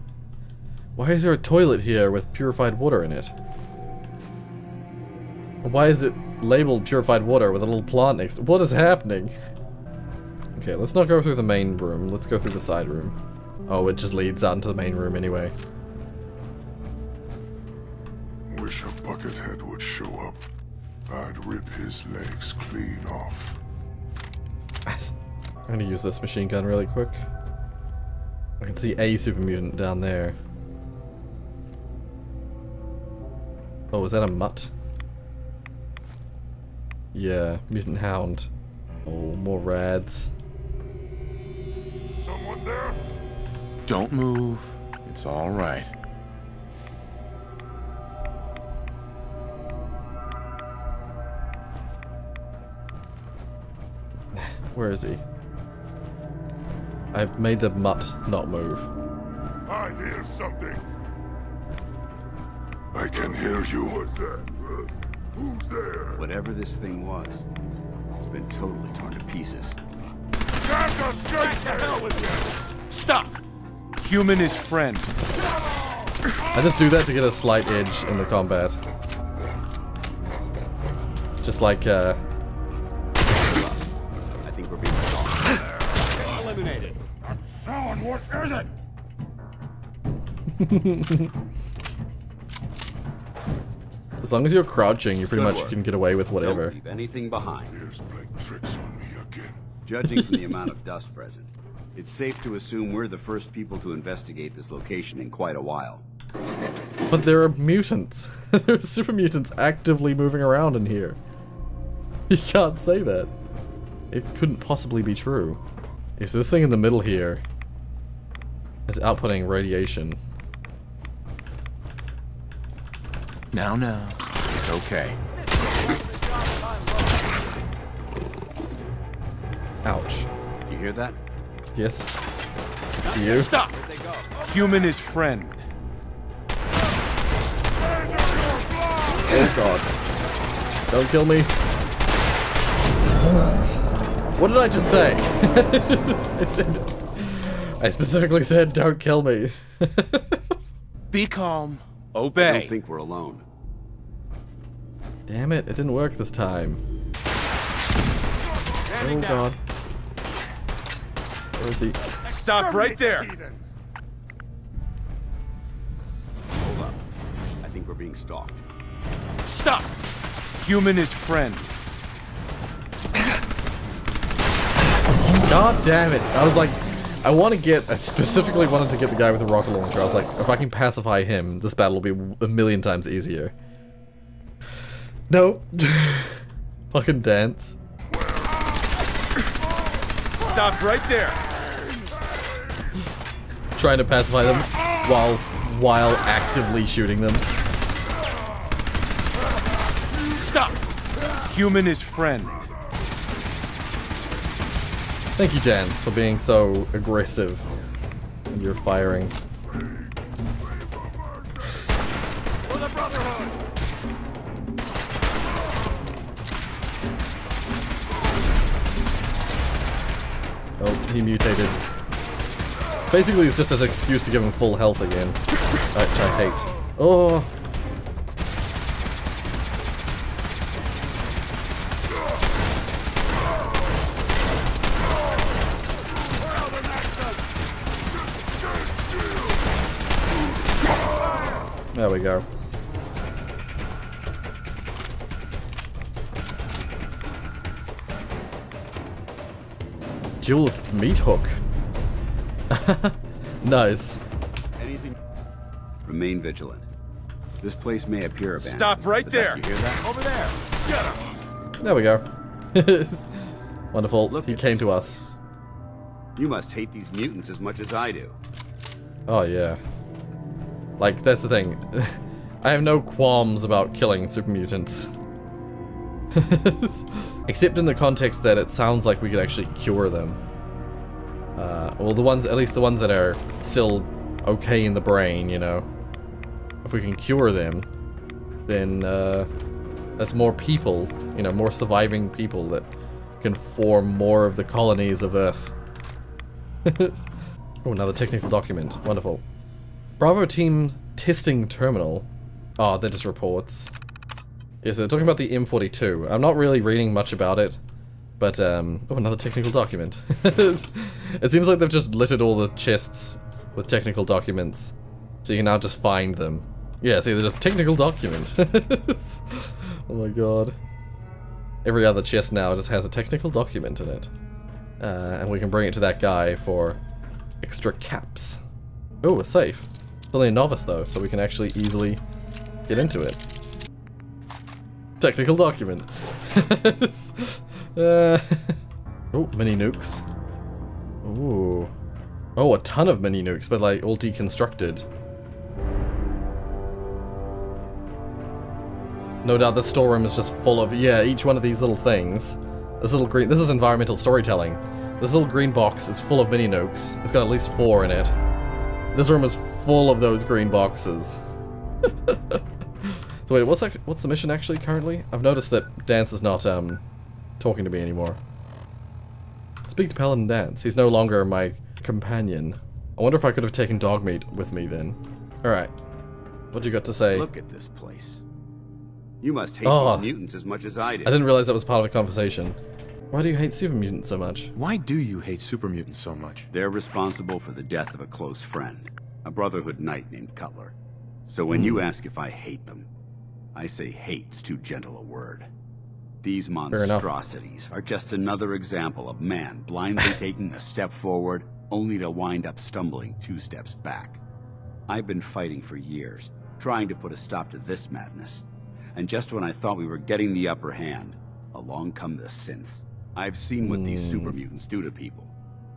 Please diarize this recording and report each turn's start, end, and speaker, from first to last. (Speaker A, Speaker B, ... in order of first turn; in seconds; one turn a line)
Speaker A: 1.0-3.3
Speaker A: 5.6-9.3
Speaker A: 10.6-13.2
Speaker A: 13.7-15.5
Speaker B: 18.5-20.4
Speaker B: 21.1-23.6
Speaker A: 24.9-25.1
Speaker A: 25.7-27.2
Speaker A: 28.6-30.4
Speaker A: 33.9-34.7
Speaker A: 37.1-38.5
Speaker A: 39.1-40.3
Speaker B: 42.2-42.9
Speaker C: 43.9-45.9
Speaker A: 54.4-55.2
Speaker A: 57.1-58.9
Speaker B: 59.7-60.8
Speaker B: 62.9-64.5
Speaker B: 65.4-66.0
Speaker D: 66.2-67.5
Speaker D: 68.2-69.8
Speaker B: 70.8-72.3
Speaker D: 71.4-72.1
Speaker D: 72.9-73.3
Speaker C: 74.0-75.2
Speaker A: 76.5-78.8
Speaker A: 81.4-82.2
Speaker D: 83.3-83.8
Speaker D: 84.4-87.0
Speaker A: 90.6-91.3
Speaker A: 94.2-96.8
Speaker D: 95.3-95.8
Speaker D: 96.4-97.8
Speaker B: 97.7-99.6
Speaker D: 99.9-106.0
Speaker A: 107.1-111.2
Speaker A: 112.3-113.3
Speaker A: 114.1-115.6
Speaker A: 116.2-117.4
Speaker A: 118.9-120.2
Speaker C: 123.5-125.2
Speaker A: 129.8-130.3
Speaker D: 130.7-131.2
Speaker A: 131.8-132.1
Speaker D: 133.1-134.6
Speaker A: 133.1-133.5
Speaker C: 134.4-135.6
Speaker A: 139.3-139.8
Speaker A: 140.9-141.5
Speaker A: 144.4-150.8
Speaker C: 151.1-152.8
Speaker D: 152.4-153.4
Speaker A: 155.3-156.8
Speaker A: 159.0-159.6
Speaker A: 161.6-162.0
Speaker C: 162.3-163.2
Speaker D: 166.6-167.0
Speaker D: 167.6-168.6
Speaker C: 170.6-171.7
Speaker A: 175.4-183.5
Speaker A: 185.3-187.8
Speaker A: 193.8-197.4
Speaker C: 201.4-202.7
Speaker A: 205.4-207.7
Speaker A: 208.5-209.3
Speaker A: 220.8-221.8
Speaker A: 223.1-225.4
Speaker A: 225.9-227.5
Speaker A: 241.9-242.4
Speaker A: 250.4-251.6
Speaker A: 252.7-254.2
Speaker D: 254.8-255.2
Speaker D: 256.0-256.9
Speaker D: 257.6-260.6
Speaker C: 258.8-259.6
Speaker A: 261.8-265.2
Speaker D: 264.3-265.3
Speaker D: 266.4-268.4
Speaker A: 269.3-269.8
Speaker A: 271.0-275.1
Speaker A: 276.4-280.4
Speaker A: 281.6-285.9
Speaker A: 286.9-287.9
Speaker A: 288.7-289.5
Speaker A: 290.2-292.9
Speaker A: 293.4-295.7
Speaker A: 296.9-297.2
Speaker A: 297.8-299.4
Speaker A: 300.2-302.3
Speaker A: 302.8-303.9
Speaker A: 304.8-307.8
Speaker A: 308.4-320.8
Speaker A: 321.9-324.3
Speaker A: 325.0-327.0
Speaker A: 327.6-328.6
Speaker A: 329.2-332.2
Speaker A: 332.9-333.4
Speaker A: 335.2-338.8
Speaker A: 339.3-340.2
Speaker A: 341.2-341.9
Speaker A: 342.6-345.1
Speaker A: 349.4-358.3
Speaker A: 359.1-361.4
Speaker A: 362.3-367.0
Speaker A: 367.6-368.4
Speaker A: 369.9-375.9
Speaker A: 376.7-377.5
Speaker C: 377.3-378.4
Speaker D: 379.4-381.4
Speaker A: 379.8-380.3
Speaker A: 381.2-382.8
Speaker A: 383.3-384.7
Speaker C: 384.8-386.7
Speaker D: 386.7-390.9
Speaker D: 391.5-393.1
Speaker A: 391.7-392.0
Speaker D: 393.8-395.7
Speaker D: 396.4-404.4
Speaker A: 396.9-397.3
Speaker D: 405.1-408.6
Speaker D: 409.1-415.5
Speaker A: 413.8-414.6